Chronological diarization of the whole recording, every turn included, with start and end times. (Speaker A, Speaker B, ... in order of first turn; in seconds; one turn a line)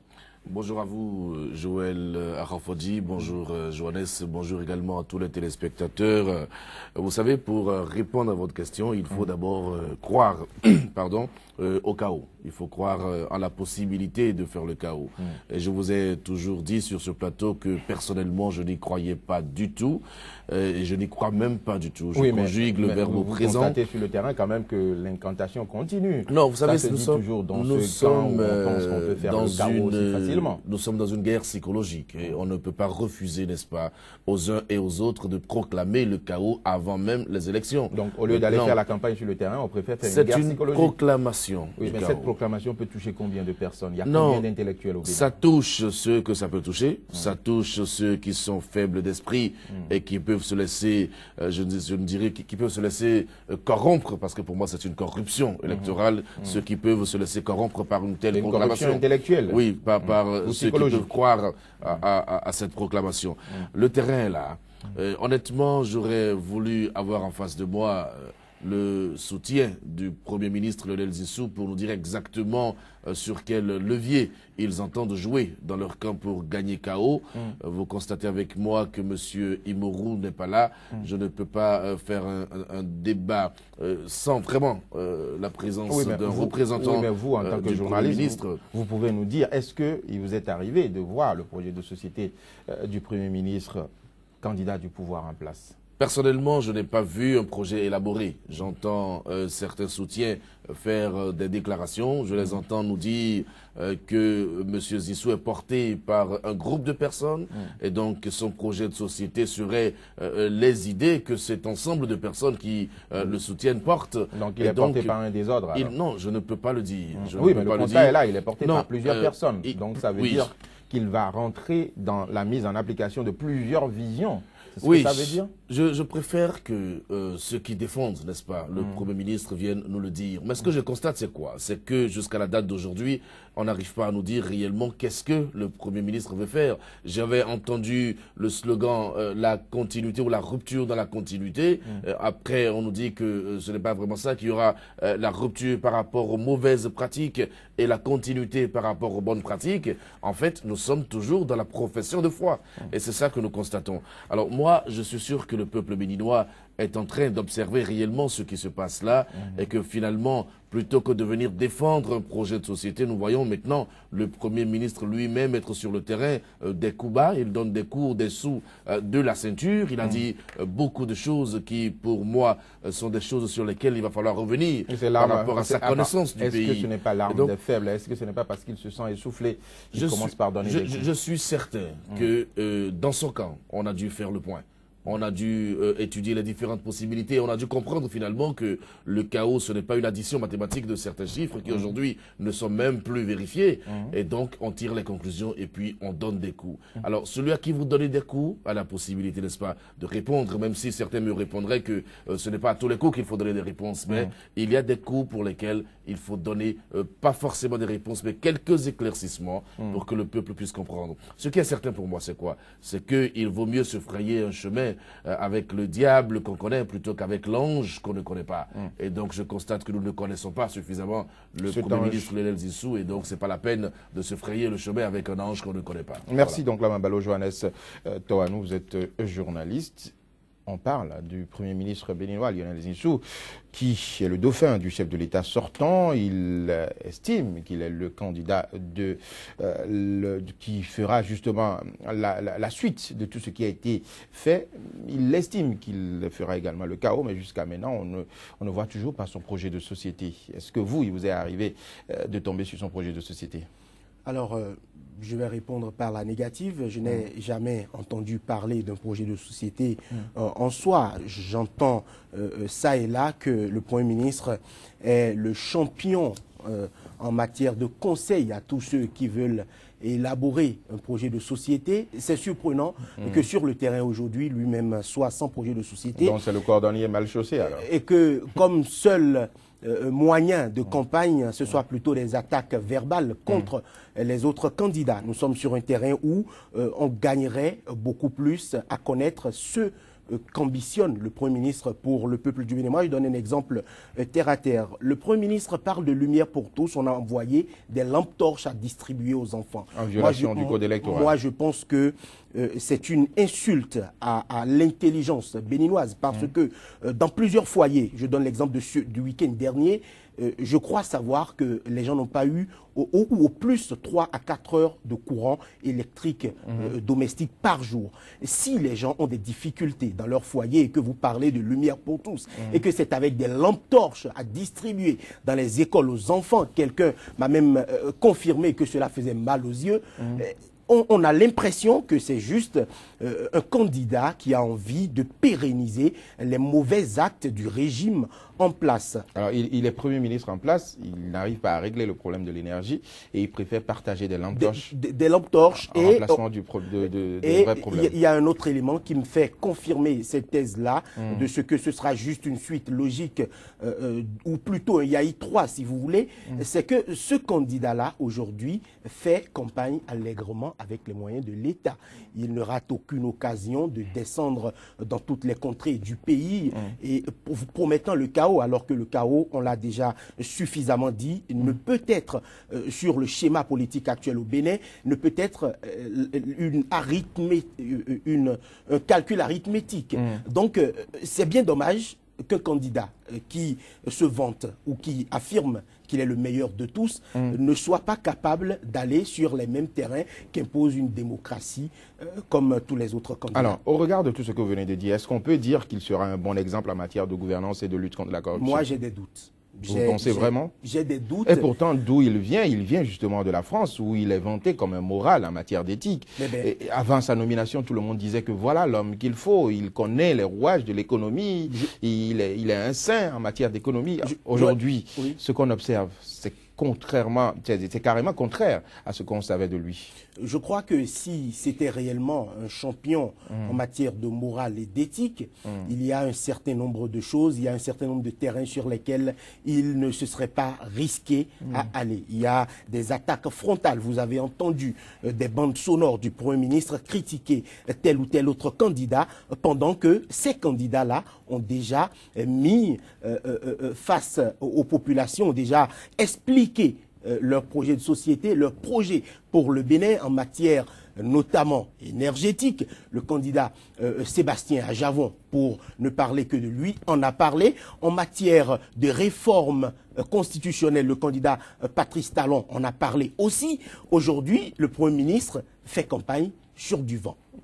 Speaker A: 0.5-23.8
Speaker B: 22.1-30.6
Speaker A: 26.3-38.8
Speaker B: 37.9-40.9
Speaker A: 40.0-42.3
Speaker B: 41.8-45.3
Speaker A: 44.0-44.4
Speaker A: 45.0-88.6
Speaker B: 58.3-61.1
Speaker B: 85.9-93.9
Speaker B: 94.4-95.8
Speaker A: 96.0-115.2
Speaker B: 114.3-115.9
Speaker A: 115.7-120.5
Speaker B: 117.2-125.5
Speaker A: 124.8-177.5
Speaker B: 174.9-181.1
Speaker A: 179.9-226.6
Speaker B: 221.7-222.3
Speaker B: 226.3-230.1
Speaker B: 230.7-253.7
Speaker C: 254.2-276.4
Speaker B: 276.1-277.9
Speaker C: 277.6-339.2
Speaker B: 299.9-301.3
Speaker B: 339.3-344.9
Speaker C: 344.5-346.4
Speaker B: 345.9-348.1
Speaker C: 347.4-393.8
Speaker B: 351.2-351.4
Speaker B: 393.5-398.9
Speaker C: 398.5-401.7
Speaker B: 399.9-400.7
Speaker B: 401.4-420.1
Speaker C: 406.4-406.7
Speaker C: 414.2-415.4
Speaker C: 420.4-467.4
Speaker B: 423.5-423.8